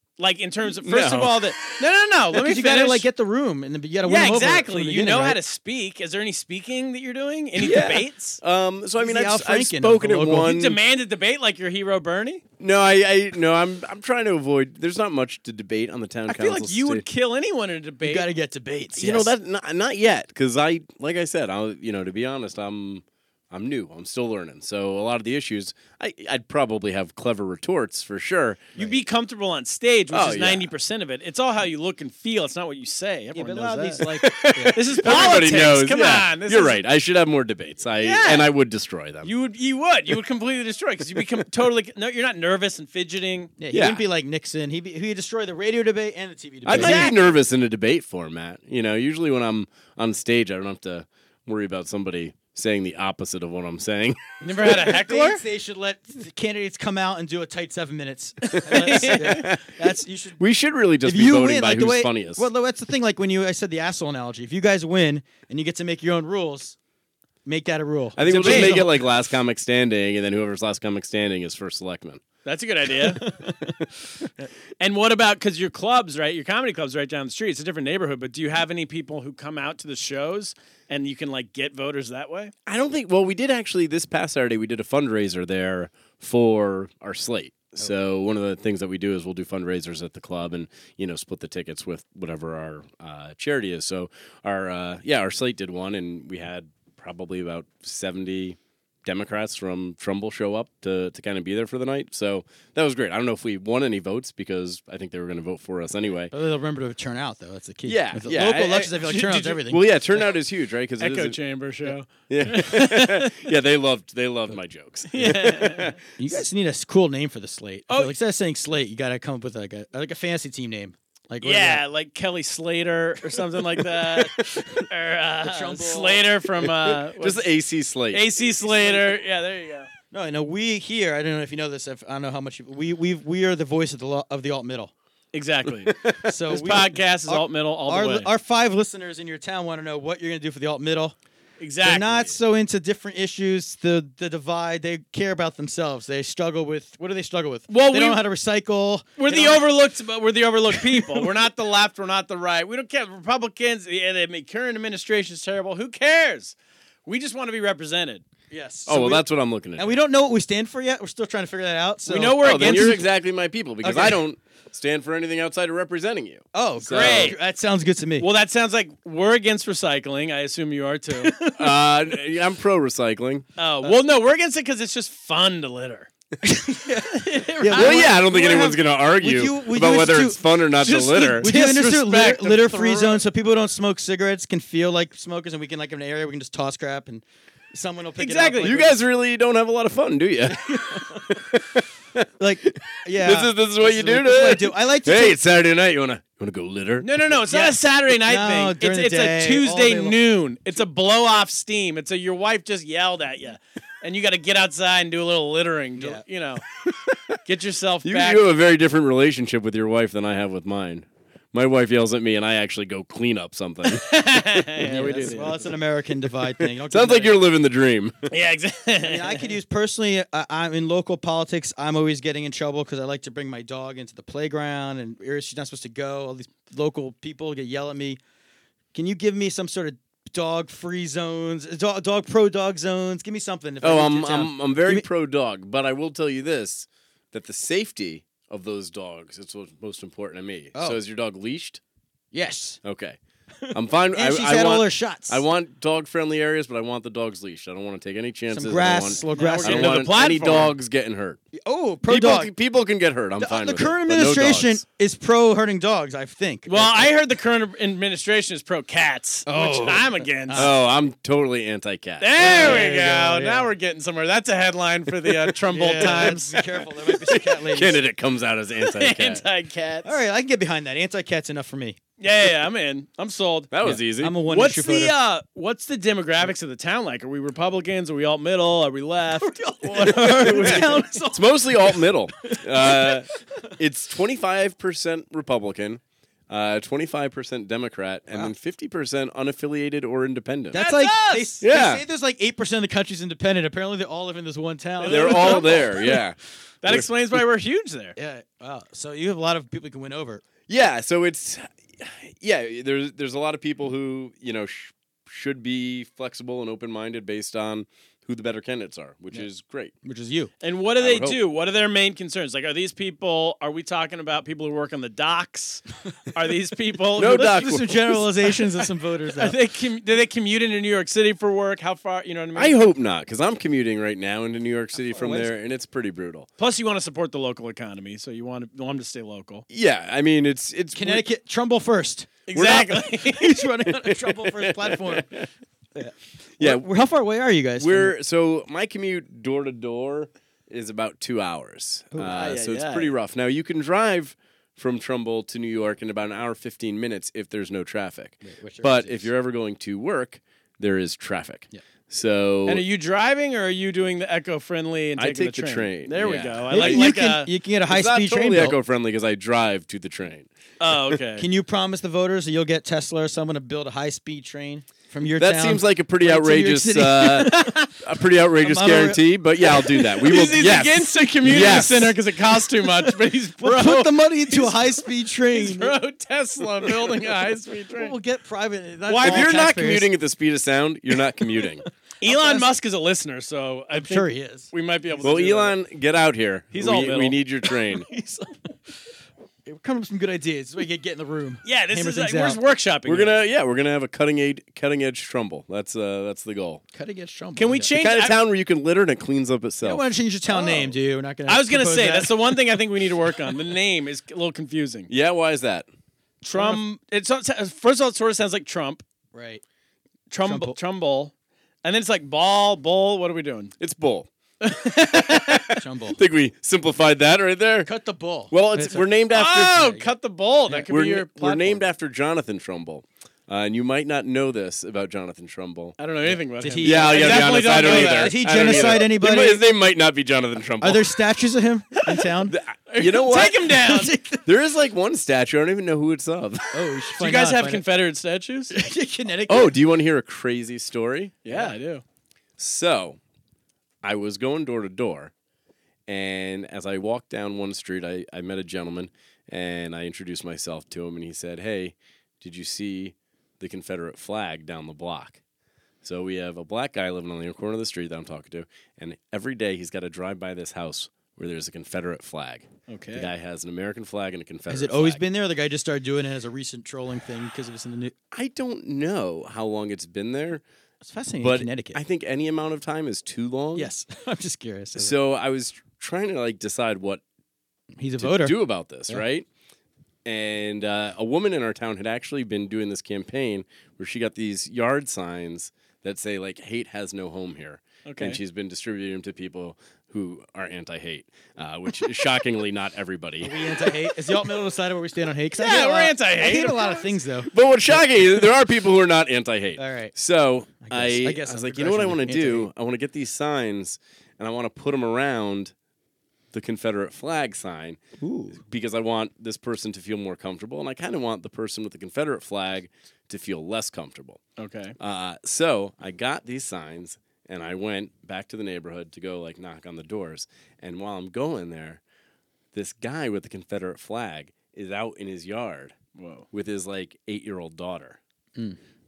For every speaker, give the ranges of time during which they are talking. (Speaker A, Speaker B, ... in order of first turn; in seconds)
Speaker A: 0.2-3.1, 4.0-8.4, 10.4-12.4, 16.3-18.3, 28.8-34.1, 34.7-36.8, 38.0-38.5, 39.2-43.5, 46.7-47.2, 54.4-55.4, 58.5-59.5, 68.3-68.8, 72.5-73.2, 74.8-82.5, 111.0-113.5, 115.1-116.0, 121.4-127.5, 128.1-129.9, 135.3-136.0, 136.5-138.3, 141.6-142.4, 147.7-148.2, 149.2-158.2, 162.1-163.0, 166.9-167.4, 168.2-171.6, 173.6-176.1, 177.1-178.2, 180.8-183.2, 188.2-188.7, 197.0-206.6, 207.5-208.4, 213.9-215.7, 218.3-219.5, 249.3-250.8, 256.7-260.7, 262.2-266.6, 268.8-270.2, 272.2-273.7, 274.4-280.9, 290.7-291.6, 295.0-296.0, 296.8-298.1, 310.6-317.7, 319.4-322.8, 326.6-329.6, 332.5-333.6, 342.2-343.1, 352.7-357.5, 360.8-361.5, 367.5-367.9, 370.2-378.1, 379.1-379.6, 382.2-385.8, 386.7-387.4, 391.6-393.4, 397.6-398.4, 400.5-405.1, 406.4-409.0, 410.3-411.3, 411.8-413.7, 414.6-415.7, 419.3-421.8, 426.0-429.0, 432.9-434.1, 437.2-438.7, 441.4-442.0, 462.9-463.3, 488.1-488.4, 495.6-497.1, 514.6-515.0, 526.1-526.5
Speaker B: 0.7-1.5, 7.6-10.8, 12.6-17.0, 19.0-28.7, 30.1-30.7, 34.0-39.3, 43.7-44.1, 46.6-54.2, 58.7-59.8, 60.4-62.5, 68.2-72.2, 82.7-106.3, 107.8-111.4, 112.3-116.0, 127.2-128.2, 136.0-136.2, 158.9-160.0, 162.4-167.3, 171.6-173.5, 177.7-181.5, 188.6-197.1, 206.7-207.4, 208.1-214.1, 214.8-215.4, 216.4-218.3, 233.8-241.8, 242.8-243.2, 243.7-251.4, 252.1-254.8, 260.5-262.9, 265.9-266.4, 267.1-269.4, 273.7-274.4, 279.9-290.8, 291.6-292.0, 295.1-297.1, 300.7-309.9, 311.0-311.4, 317.2-318.3, 322.6-326.5, 329.7-331.2, 332.6-332.9, 333.9-335.5, 336.6-336.9, 337.8-352.9, 355.2-357.1, 357.9-360.5, 365.4-372.1, 379.1-381.9, 385.2-388.1, 393.1-396.8, 397.9-400.0, 405.1-405.9, 413.8-414.3, 415.3-417.9, 418.5-419.9, 420.9-426.0, 426.8-431.1, 432.5-433.6, 434.5-436.8, 439.5-441.4, 442.6-443.2, 444.0-445.3, 446.1-455.4, 456.0-465.2, 468.3-470.6, 471.4-473.9, 474.9-477.2, 478.2-479.5, 480.3-494.2, 497.5-505.7, 506.5-508.0, 508.6-514.4, 515.0-522.0, 522.7-526.0, 526.5-528.2
Speaker C: 2.3-5.4, 9.0-10.5, 18.0-19.3, 33.3-34.8, 43.6-47.3, 54.6-60.4, 61.0-66.8, 67.5-69.1, 73.2-73.7, 106.3-110.3, 116.2-121.8, 124.4-124.8, 125.4-126.3, 128.5-129.2, 130.1-134.9, 136.2-141.2, 141.8-149.7, 150.7-151.3, 158.5-159.2, 159.8-163.0, 163.8-164.2, 166.5-168.3, 176.4-180.5, 181.4-188.9, 190.5-191.2, 192.4-195.4, 197.4-200.2, 206.0-206.2, 214.8-217.3, 219.0-228.2, 228.9-235.1, 240.8-241.0, 242.3-242.8, 243.7-245.4, 248.5-250.0, 251.6-252.5, 253.4-257.1, 259.5-260.7, 262.4-263.7, 265.7-268.0, 270.0-272.0, 273.8-275.1, 279.4-283.2, 290.7-296.2, 298.2-300.4, 310.0-310.5, 317.2-319.6, 325.1-325.5, 331.0-335.3, 335.9-338.1, 348.4-349.3, 356.7-358.8, 361.4-367.7, 368.6-369.9, 373.6-375.9, 378.0-380.1, 382.2-382.7, 383.9-384.7, 387.9-388.5, 389.7-392.6, 396.9-397.9, 399.8-402.5, 406.5-406.8, 409.3-409.6, 410.4-410.8, 415.8-416.2, 417.8-419.1, 419.6-420.1, 426.3-429.6, 430.8-432.5, 433.6-434.4, 436.7-437.8, 438.7-439.7, 441.5-441.8, 464.7-468.1, 471.0-472.0, 473.8-475.1, 478.0-478.6, 493.4-498.4, 499.8-500.1, 500.8-502.7, 508.2-508.6